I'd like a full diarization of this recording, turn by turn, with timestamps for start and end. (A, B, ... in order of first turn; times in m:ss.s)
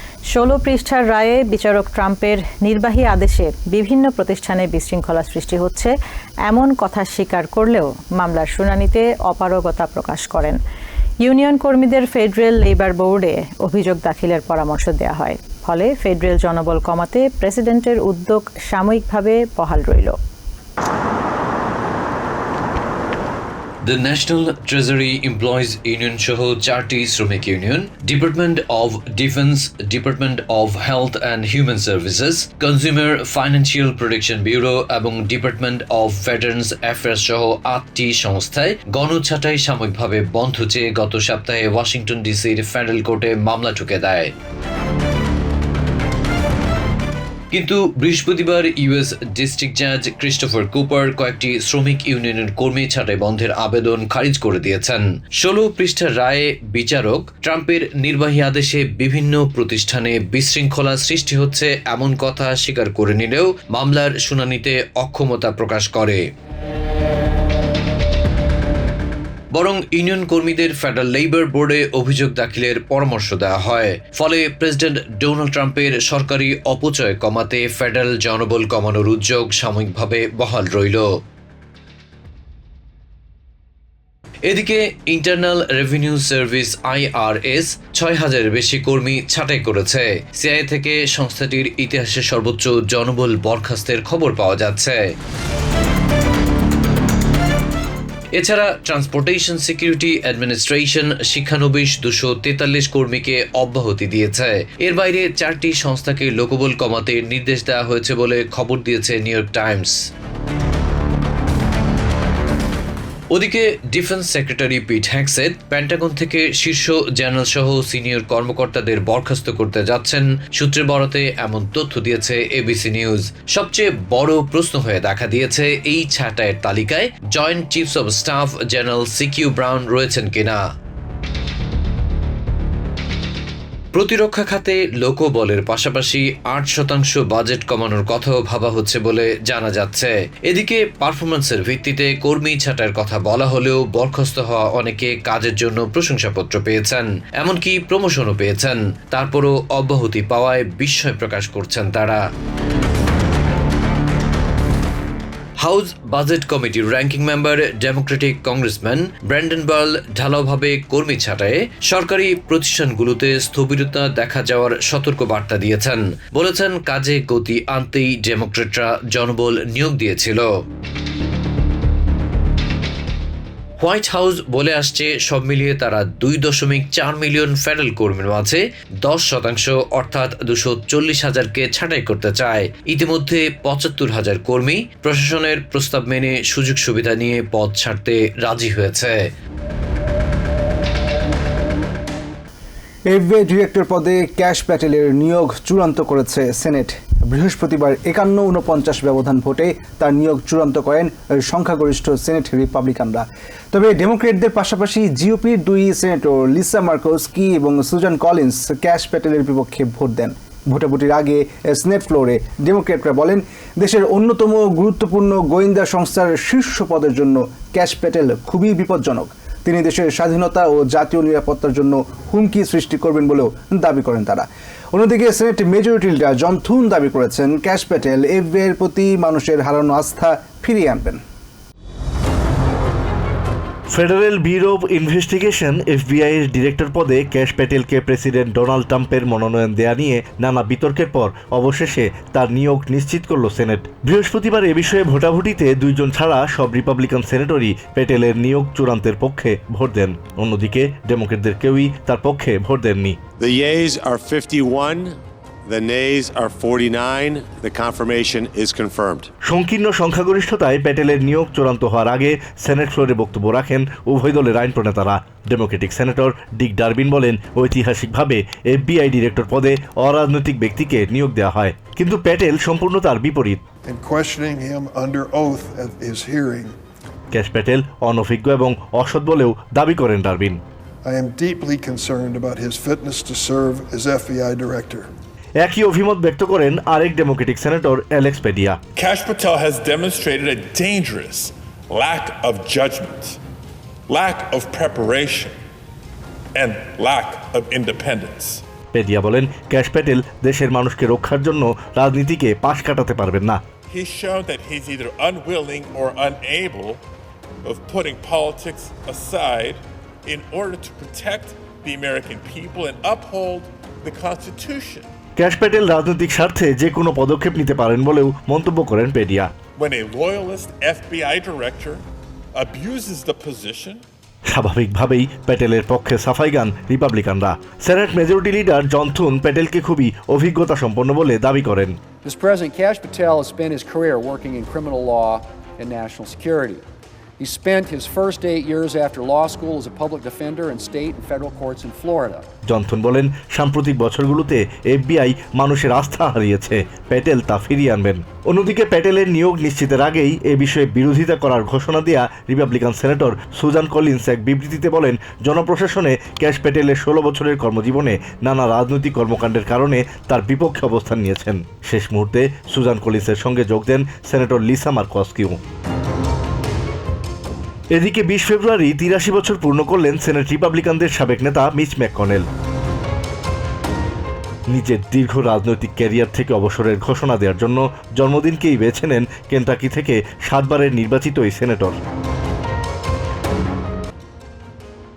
0:00.3-0:05.9 A
0:06.5-0:10.6 A
0:11.2-0:20.2 A
0:23.8-0:44.3 B
0:47.5-1:06.2 B
1:09.5-1:21.0 B
1:24.4-1:35.1 B
1:38.4-1:49.9 B
1:53.3-2:10.6 B
2:13.9-2:32.2 B
2:35.6-2:50.5 B
2:53.8-3:09.2 B
3:13.1-3:51.2 C
3:53.9-4:13.2 D
4:13.4-4:19.3 E
4:19.4-4:33.6 D
4:33.9-4:36.8 F
4:37.3-4:40.6 D
4:41.0-4:45.1 F
4:45.6-4:48.8 D
4:49.0-4:53.4 G
4:54.1-4:55.5 G
4:56.5-4:58.6 G
4:58.9-5:03.6 D
5:03.9-5:07.0 G
5:07.6-5:15.1 G
5:15.4-5:19.5 D
5:19.8-5:22.0 G
5:22.5-5:24.0 G
5:24.5-5:32.0 D
5:32.2-5:36.8 H
5:37.4-5:42.5 H
5:42.6-6:05.6 D
6:07.9-6:12.4 D
6:14.7-6:22.0 D